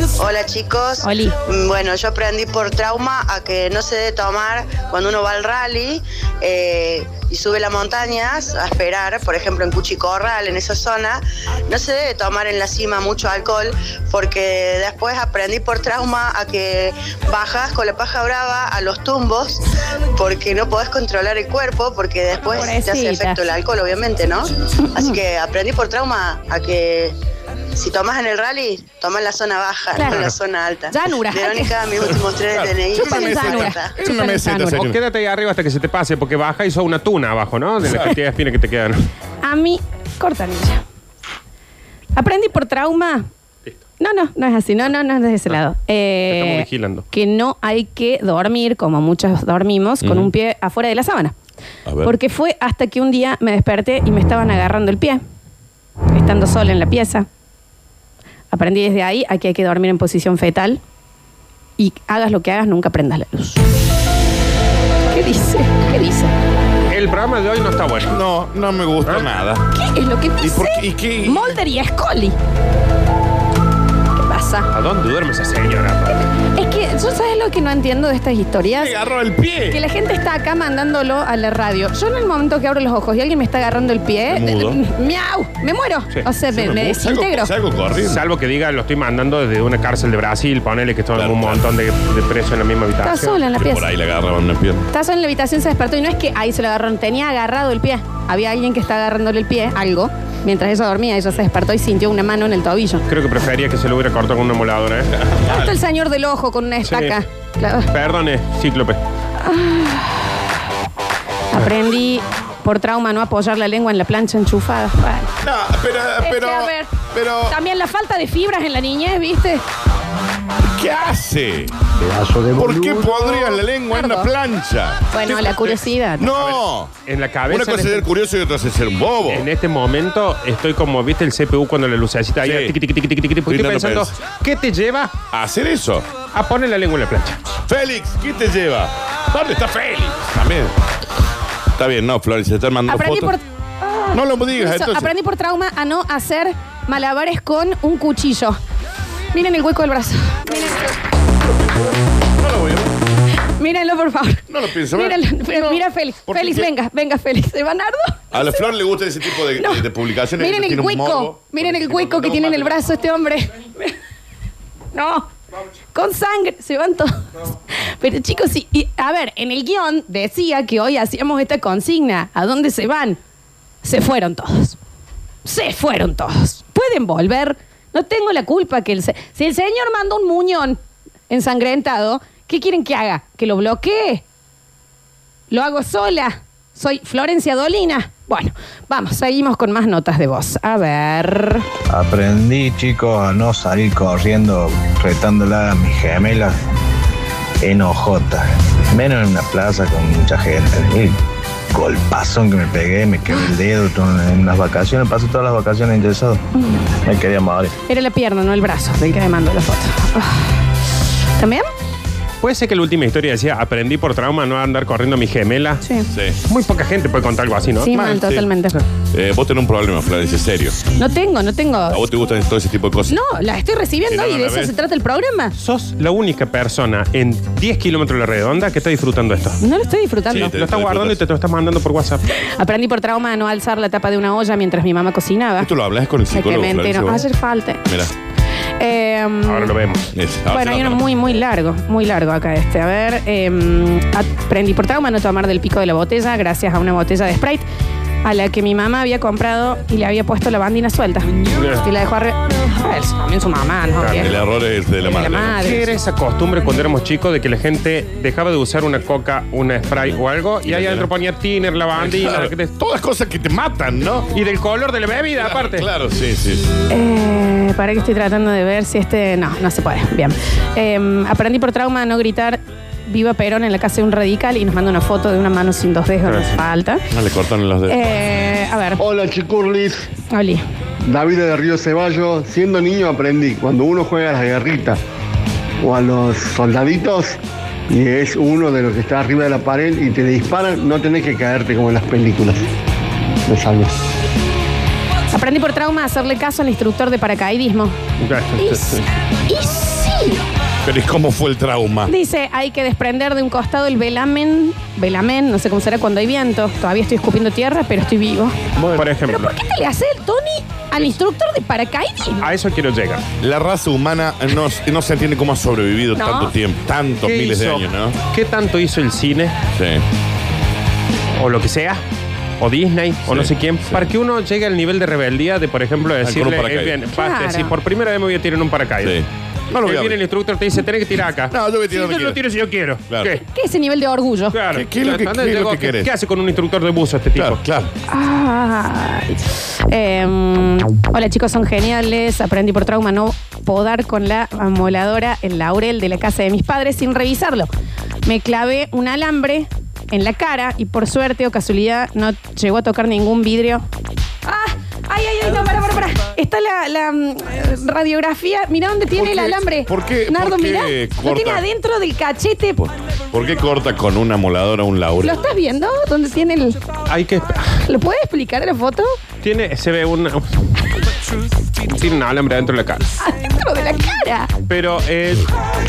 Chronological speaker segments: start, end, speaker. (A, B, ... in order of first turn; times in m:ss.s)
0:00.2-0:19.6 A
0:01.0-0:01.3 B
0:20.2-0:27.1 A
0:22.4-0:23.4 B
0:27.7-0:33.9 A
0:29.9-0:30.3 B
0:30.9-0:31.7 B
0:32.0-0:35.0 C
0:32.9-0:34.9 B
0:34.7-0:39.0 D
0:37.8-0:38.1 C
0:39.4-0:40.8 B
0:42.2-0:43.3 B
0:44.0-0:51.3 B
0:46.3-0:47.0 D
0:51.8-0:52.1 C
0:52.0-0:55.2 B
0:56.1-0:57.3 B
0:58.5-1:00.8 B
1:01.8-1:03.6 B
1:05.1-1:06.3 B
1:06.9-1:08.2 D
1:08.1-1:09.7 C
1:09.7-1:12.4 B
1:10.4-1:11.6 C
1:14.2-1:14.7 B
1:14.7-1:16.1 D
1:16.1-1:18.9 B
1:18.7-1:19.8 C
1:19.7-1:27.5 B
1:24.3-1:24.8 C
1:26.5-1:28.2 C
1:28.0-1:33.4 D
1:31.2-1:31.6 C
1:33.0-1:33.9 B
1:33.6-1:34.9 C
1:34.9-1:43.0 B
1:43.1-1:45.1 D
1:45.2-1:45.6 C
1:45.4-1:47.9 B
1:46.8-1:47.2 D
1:47.9-1:49.0 D
1:49.4-1:50.4 B
1:51.5-1:55.3 B
1:55.4-1:57.6 C
1:56.2-1:56.9 B
1:57.5-1:59.6 B
2:00.7-2:01.8 C
2:02.0-2:02.5 E
2:02.5-2:06.9 C
2:03.1-2:04.3 B
2:05.1-2:06.3 B
2:06.4-2:08.1 D
2:07.5-2:09.5 C
2:09.3-2:15.2 D
2:12.4-2:12.7 C
2:13.5-2:14.1 C
2:15.3-2:16.1 C
2:16.3-2:17.4 D
2:17.7-2:20.7 C
2:21.8-2:23.4 C
2:22.9-2:28.6 B
2:24.1-2:25.1 C
2:29.3-2:31.0 B
2:30.5-2:30.9 C
2:32.4-2:32.9 C
2:33.6-2:38.7 B
2:34.5-2:36.7 C
2:38.3-2:42.8 C
2:39.5-2:39.8 B
2:40.4-2:43.9 B
2:44.9-2:45.3 B
2:45.9-2:53.2 B
2:53.8-2:54.8 B
2:55.4-3:04.2 B
3:05.5-3:11.7 B
3:11.9-3:16.5 E
3:17.6-3:21.1 E
3:21.7-3:26.4 E
3:26.6-3:26.8 B
3:27.0-3:27.7 E
3:27.9-3:30.6 B
3:31.4-3:31.7 B
3:32.4-3:35.8 D
3:36.1-3:36.4 C
3:36.5-3:37.9 D
3:37.8-3:38.8 B
3:37.9-3:38.5 C
3:39.1-3:40.8 C
3:41.0-3:42.0 B
3:41.9-3:43.1 C
3:43.1-3:45.5 B
3:44.1-3:44.7 C
3:45.6-3:49.6 D
3:49.6-3:50.6 B
3:50.3-3:51.2 C
3:50.4-3:52.2 D
3:52.4-3:55.7 B
3:55.6-3:57.2 C
3:56.3-3:57.8 B
3:57.8-3:58.1 C
3:58.8-3:59.7 B
3:59.4-4:00.0 D
4:00.1-4:01.0 C
4:00.5-4:07.6 B
4:08.2-4:14.3 B
4:11.5-4:11.8 D
4:14.0-4:14.3 D
4:14.2-4:15.7 C
4:15.0-4:15.9 B
4:15.5-4:22.7 D
4:20.0-4:21.1 C
4:21.9-4:24.3 C
4:24.3-4:25.9 D
4:25.4-4:26.7 C
4:26.9-4:37.0 B
4:36.3-4:36.5 D
4:37.1-4:38.1 C
4:37.9-4:39.0 B
4:39.0-4:40.0 F
4:40.3-4:40.6 B
4:41.0-4:45.0 F
4:45.8-4:47.4 F
4:47.9-4:52.6 F
4:53.5-4:53.9 F
4:55.3-4:57.9 B
4:58.2-4:59.0 D
4:58.6-5:00.4 B
5:00.8-5:02.1 C
5:02.0-5:08.6 B
5:08.8-5:09.0 C
5:08.9-5:09.5 D
5:09.2-5:12.5 B
5:12.4-5:13.2 D
5:13.4-5:18.2 C
5:16.2-5:16.5 B
5:17.2-5:19.6 D
5:19.7-5:20.0 C
5:21.4-5:22.0 D
5:22.6-5:29.2 D
5:23.3-5:24.0 C
5:26.2-5:27.0 C
5:27.1-5:27.7 B
5:29.0-5:30.2 C
5:29.8-5:33.4 D
5:31.5-5:32.4 C
5:33.5-5:34.6 B
5:34.5-5:37.6 D
5:34.7-5:36.1 C
5:37.4-5:37.9 C
5:38.1-5:47.7 B
5:48.2-5:53.8 B
5:54.4-6:02.8 B
5:59.2-6:01.6 C
6:02.8-6:05.5 C
6:05.2-6:06.8 B
6:07.1-6:07.8 D
6:07.8-6:09.1 B
6:09.4-6:10.5 D
6:11.8-6:13.1 D
6:13.2-6:14.5 B
6:14.7-6:15.5 D